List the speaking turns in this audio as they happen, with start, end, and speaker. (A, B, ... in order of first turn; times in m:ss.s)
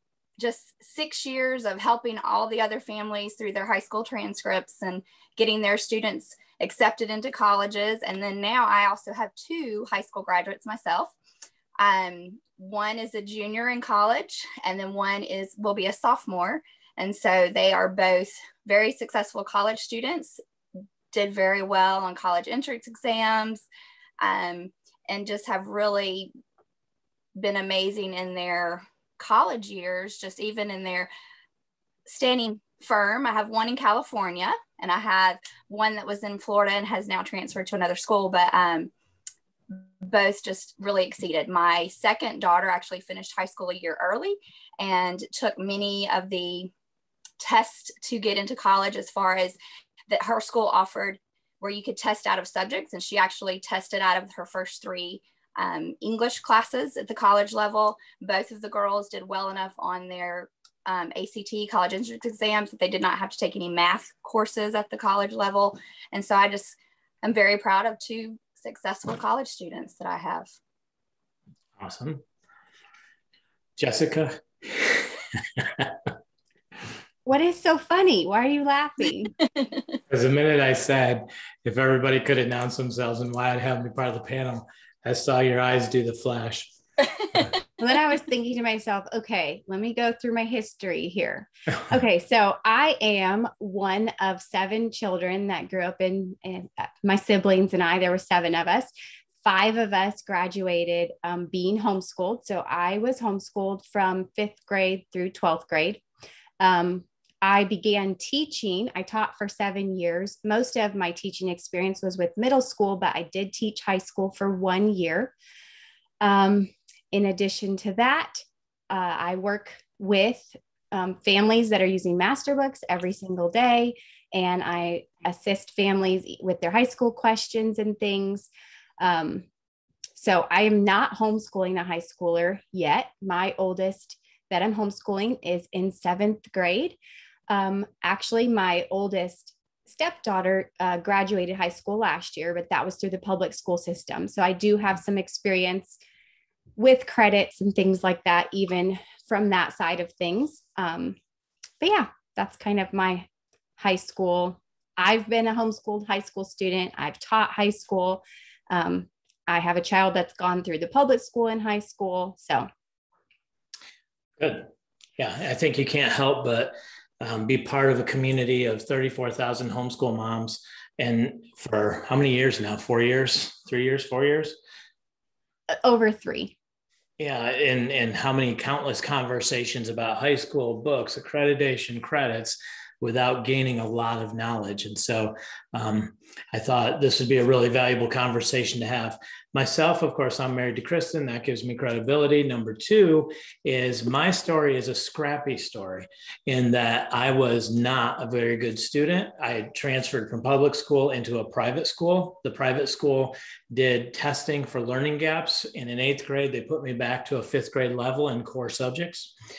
0:00.4-0:11.2 A
0:11.8-0:20.4 A
0:21.1-0:23.7 A
0:24.2-0:26.3 A
0:27.4-0:31.1 A
0:32.1-0:38.9 A
0:39.7-0:46.7 A
0:47.4-0:49.6 A
0:50.1-1:10.5 A
1:11.8-1:12.2 B
1:13.8-1:16.0 B
1:17.2-1:19.4 C
1:20.1-1:26.7 B
1:27.8-1:38.9 C
1:39.4-1:46.0 C
1:46.6-1:55.3 C
1:56.2-2:09.5 C
2:10.2-2:17.0 C
2:17.5-2:26.0 C
2:26.8-2:31.2 C
2:31.8-2:42.7 C
2:44.4-2:54.6 B
2:55.7-2:56.6 C
2:57.2-3:29.3 B